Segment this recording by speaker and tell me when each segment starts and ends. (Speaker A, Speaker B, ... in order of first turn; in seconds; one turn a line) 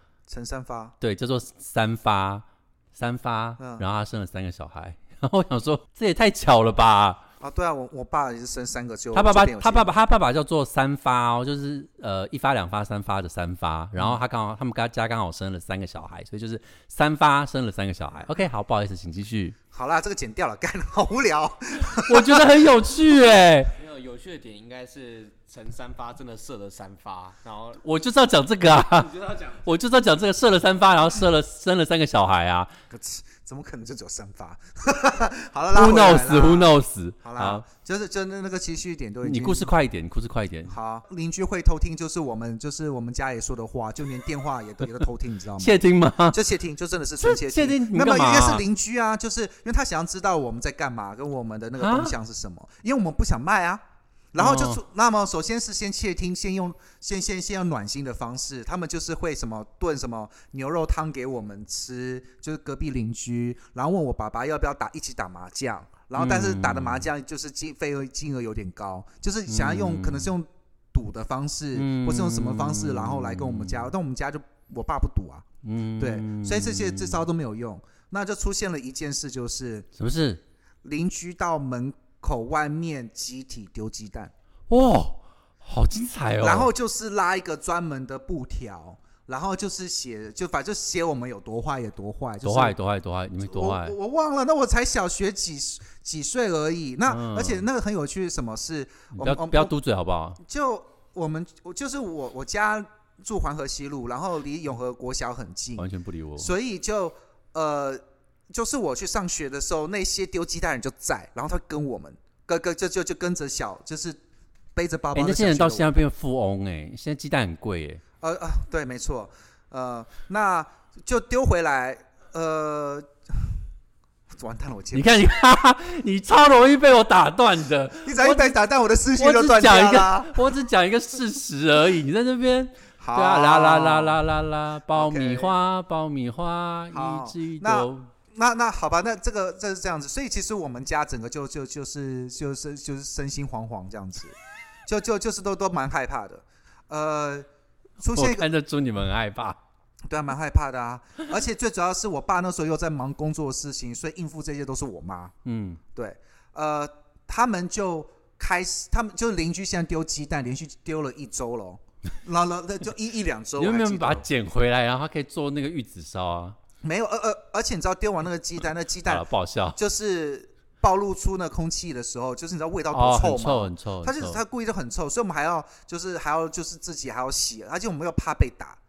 Speaker A: 0.3-0.9
Speaker B: 1.0-7.2
Speaker A: 3.6-3.8
Speaker A: 7.4-9.9
Speaker B: 9.1-19.6
Speaker A: 19.7-22.6
Speaker B: 21.9-23.7
Speaker C: 23.8-27.8
Speaker B: 27.8-32.7
Speaker C: 28.8-29.6
Speaker A: 32.9-39.7
Speaker B: 35.7-37.6
Speaker B: 39.2-40.7
Speaker A: 40.7-53.8
Speaker B: 45.6-46.4
Speaker B: 47.2-48.6
Speaker B: 51.8-52.1
Speaker A: 54.3-75.4
Speaker B: 54.4-54.8
Speaker B: 66.2-67.1
Speaker B: 69.5-70.3
Speaker B: 71.7-73.9
Speaker B: 75.6-77.2
Speaker A: 76.0-79.9
Speaker B: 80.0-80.4
Speaker A: 80.8-84.3
Speaker B: 84.7-86.7
Speaker A: 86.4-92.7
Speaker B: 92.4-93.9
Speaker A: 93.4-99.7
Speaker B: 97.1-97.6
Speaker B: 99.2-100.4
Speaker A: 100.4-105.8
Speaker B: 105.8-106.5
Speaker A: 106.4-114.2
Speaker A: 114.8-115.9
Speaker B: 115.1-118.0
Speaker A: 118.2-123.1
Speaker A: 124.3-125.1
Speaker B: 124.9-128.6
Speaker A: 128.0-130.4
Speaker B: 129.2-138.1
Speaker A: 133.0-134.2
Speaker A: 134.9-135.5
Speaker A: 136.9-144.3
Speaker A: 144.8-147.5
Speaker A: 148.0-148.5
Speaker B: 148.1-149.6
Speaker A: 150.1-155.3
Speaker B: 155.4-155.8
Speaker A: 155.9-164.2
Speaker B: 163.6-166.6
Speaker A: 166.8-178.8
Speaker B: 169.0-169.8
Speaker B: 172.9-174.4